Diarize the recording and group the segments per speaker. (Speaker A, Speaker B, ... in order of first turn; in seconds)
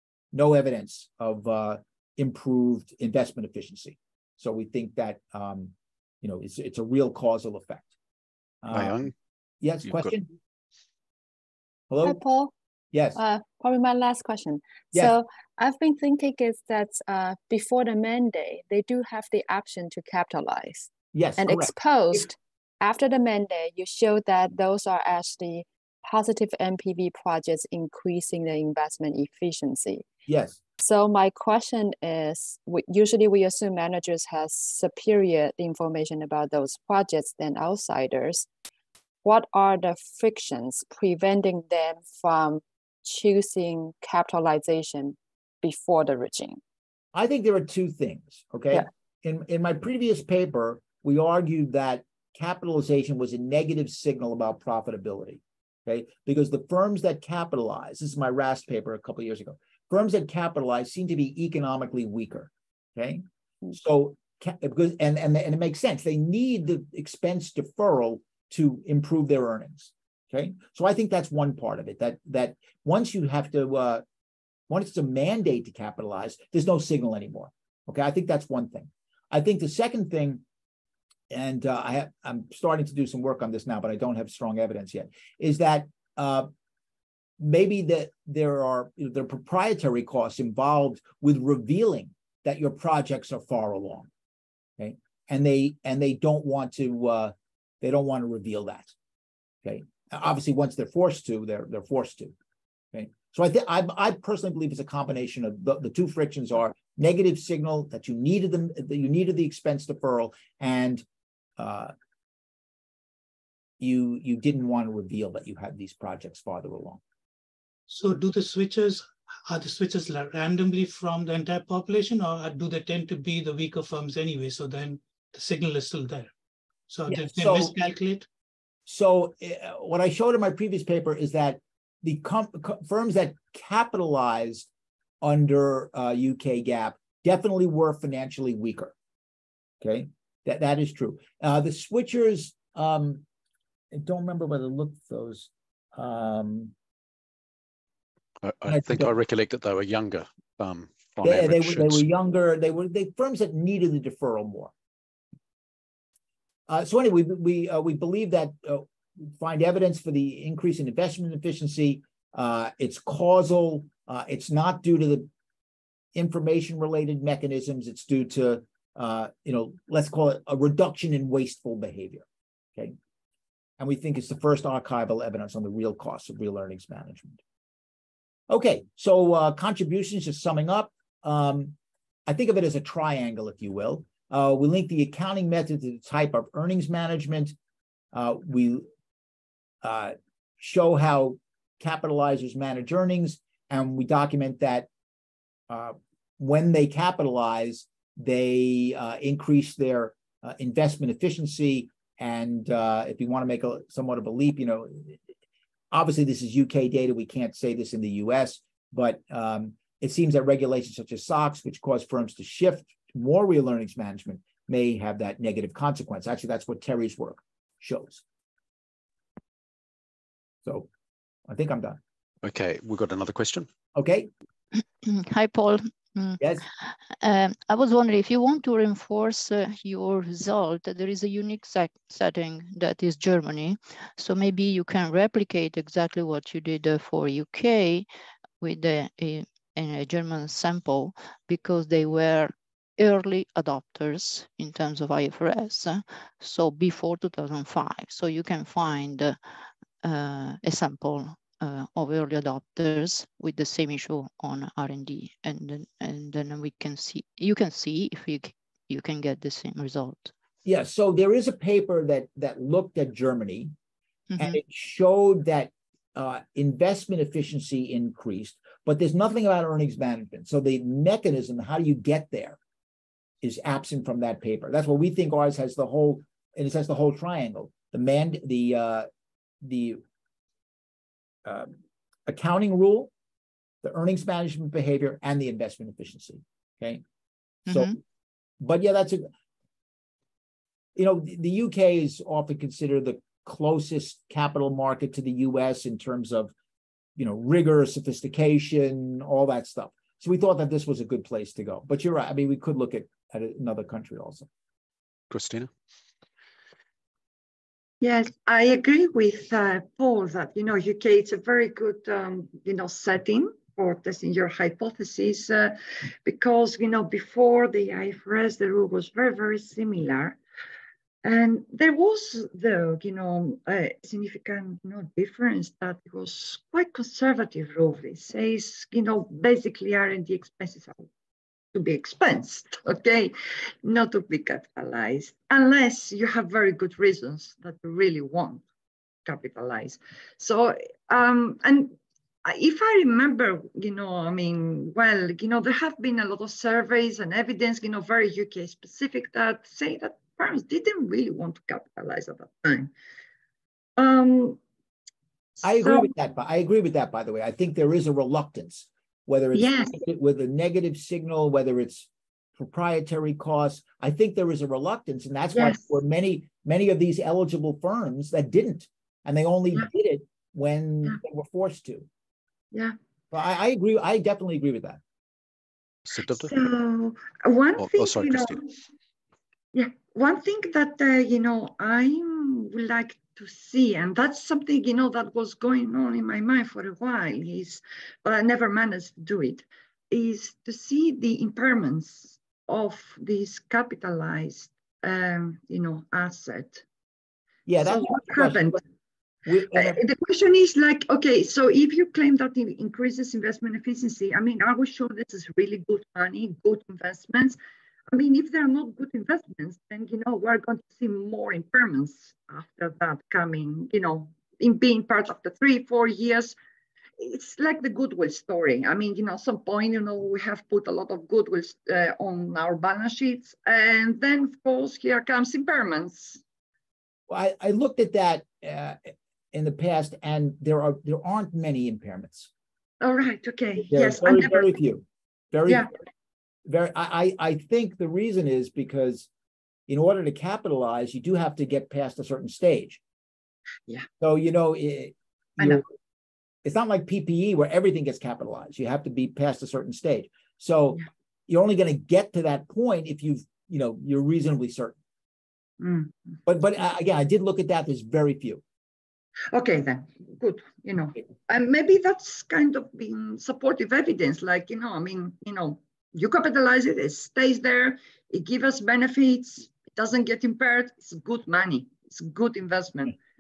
Speaker A: 0.3-7.9, 8.6-9.1, 9.6-10.3, 11.9-12.2, 12.9-13.2, 21.1-21.7, 30.2-30.6, 47.1-74.0, 74.7-80.4, 81.3-86.5, 87.4-94.1, 94.8-98.9, 99.6-102.3, 102.9-111.0, 111.6-111.9, 113.8-117.0, 127.1-127.7, 128.8-134.7, 135.2-138.9, 139.8-143.2, 143.9-146.7, 148.7-149.1, 151.2-154.7, 156.7-165.3, 166.1-172.9, 173.8-177.4, 178.5-181.8, 182.3-187.6, 188.1-188.9, 189.8-194.9, 195.7-205.2, 205.9-218.2, 220.6-220.9, 221.5-222.0, 223.9-224.3, 226.4-226.6, 260.6-263.7, 264.4-272.6, 273.4-279.1, 279.6-280.0, 281.4-283.1, 283.8-287.0, 287.7-287.9, 288.6-289.3, 290.9-296.5, 297.2-304.5, 355.6-372.1, 373.3-375.0, 397.6-398.8, 399.4-400.0, 427.3-432.5, 433.9-435.9, 436.6-439.3, 439.9-443.0, 444.2-445.8, 446.6-454.9, 456.4-458.6
Speaker B: 8.7-9.1, 9.8-10.1, 148.4-152.0, 222.4-223.7, 305.3-305.7, 376.1-376.5, 377.8-378.7
Speaker C: 12.0-12.5, 13.1-30.0, 30.8-38.5, 39.2-46.6
Speaker D: 117.9-126.3, 126.9-128.2
Speaker E: 225.0-238.1, 238.6-249.4, 250.0-260.3, 264.3-264.6
Speaker F: 308.0-320.4, 321.2-331.1, 331.7-338.6, 339.2-352.9, 354.0-354.6, 355.7-356.1, 359.5-360.0, 365.5-365.9, 376.3-378.6, 379.7-396.8, 397.8-398.8, 399.7-407.6, 408.1-416.6, 417.2-426.4, 433.0-434.7, 455.8-456.3, 459.5-473.1